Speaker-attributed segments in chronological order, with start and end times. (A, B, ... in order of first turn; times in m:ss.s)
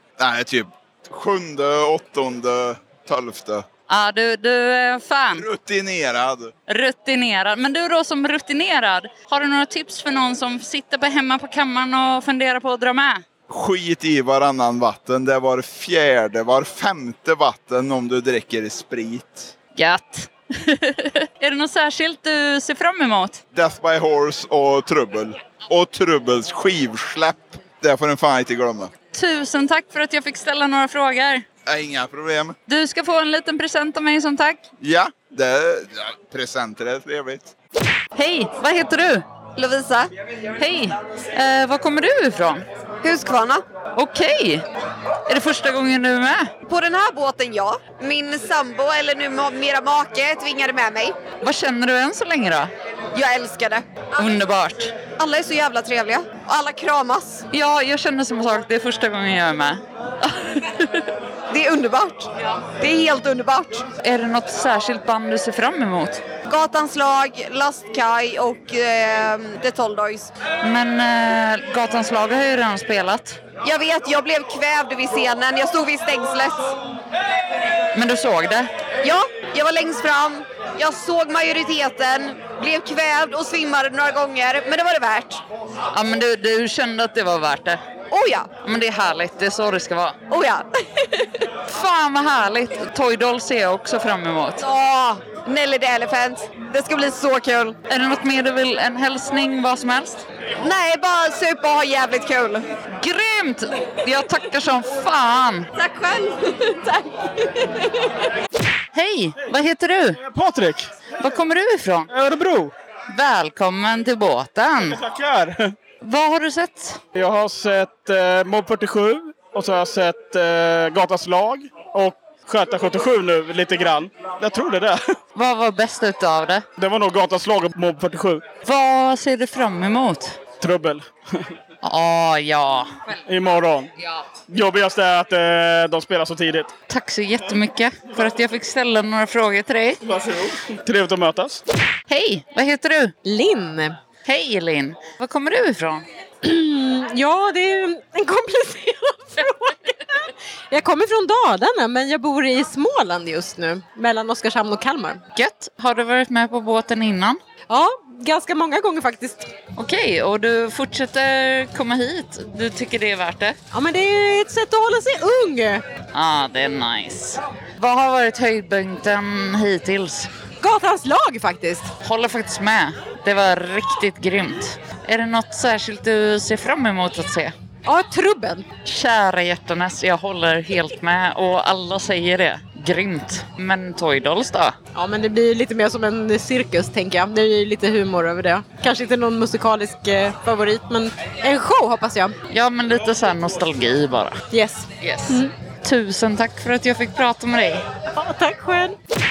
0:00.2-0:03.6 A
0:03.9-0:05.4 B
0:05.4-0:06.5 A
0:06.7-0:13.2 B
0:13.5-0:19.5 A
0:19.8-0:23.4 B
0:23.5-0:28.9 A
0:29.1-0:31.4 B
0:31.7-0:32.5 A
0:32.7-0:34.6 B
0:34.8-0:37.5 A
0:38.2-0:39.2 B
0:39.6-0:40.1 C
0:40.6-0:42.6 B
0:43.0-0:43.6 C
0:44.0-0:44.6 B
0:45.3-0:46.5 B
0:46.7-0:51.2 C
0:51.4-0:52.7 B
0:53.1-0:54.2 C
0:54.2-0:55.0 B
0:55.2-0:57.4 C
0:57.5-0:59.8 B
1:01.5-1:03.8 C
1:04.0-1:06.2 B
1:06.5-1:10.3 C
1:10.6-1:13.4 B
1:13.6-1:16.7 C
1:17.9-1:18.7 B
1:19.0-1:25.4 C
1:25.9-1:27.8 B
1:28.1-1:28.5 C
1:28.5-1:30.2 B
1:30.3-1:30.6 C
1:31.7-1:34.6 B
1:34.6-1:37.8 C
1:37.9-1:40.2 B
1:40.6-1:42.6 C
1:43.0-1:45.7 B
1:45.8-1:47.8 C
1:48.9-1:50.2 B
1:50.2-1:50.9 D
1:51.2-1:52.1 B
1:52.1-1:52.7 D
1:53.1-1:55.0 B
1:54.8-1:55.7 D
1:56.0-1:57.0 B
1:57.1-2:05.2 D
2:05.3-2:06.6 B
2:06.8-2:08.4 D
2:08.6-2:10.4 B
2:10.6-2:11.1 D
2:11.8-2:12.9 B
2:13.2-2:13.9 D
2:14.5-2:16.7 D
2:16.9-2:20.0 B
2:20.7-2:21.6 D
2:22.1-2:23.1 B
2:23.2-2:24.0 E
2:24.2-2:26.0 B
2:26.4-2:35.2 E
2:35.4-2:37.4 B
2:37.7-2:39.5 E
2:39.8-2:43.6 B
2:43.7-2:45.8 E
2:46.1-2:50.3 B
2:50.6-2:51.9 E
2:52.0-2:57.5 B
2:57.8-2:58.7 E
2:58.8-3:04.7 B
3:04.9-3:12.4 E
3:12.5-3:14.3 B
3:14.5-3:15.5 E
3:15.0-3:17.8 B
3:18.2-3:19.0 E